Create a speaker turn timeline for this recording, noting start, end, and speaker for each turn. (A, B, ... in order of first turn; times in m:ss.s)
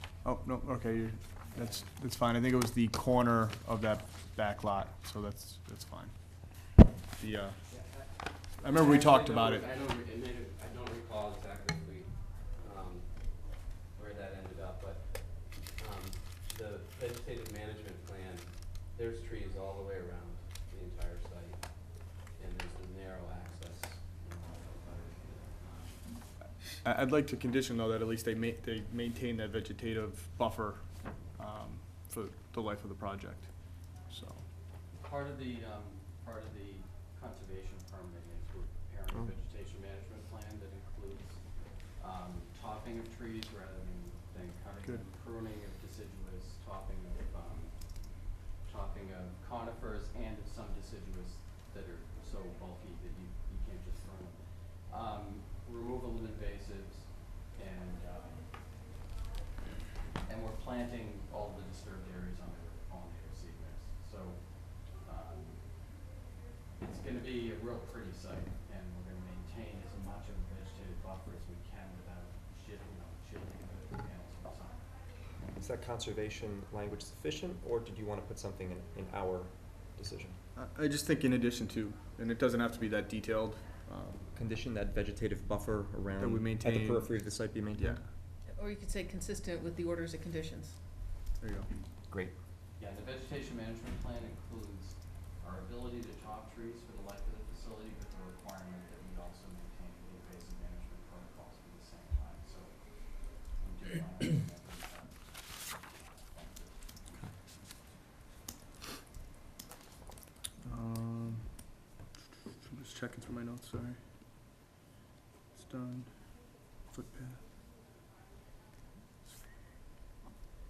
0:00.2-0:07.6 A
0:07.7-0:26.3 B
0:08.5-0:09.6 A
0:26.8-0:34.5 A
0:34.9-0:58.6 C
1:00.2-1:06.1 C
1:06.8-1:15.2 C
1:15.6-1:20.4 D
1:20.5-1:24.3 A
1:24.3-1:28.0 D
1:26.2-1:28.1 A
1:28.5-1:30.8 E
1:31.4-1:31.7 A
1:32.1-1:32.3 D
1:32.8-1:46.9 C
1:50.6-1:51.8 A
1:52.6-1:54.2 A
1:55.5-1:57.5 A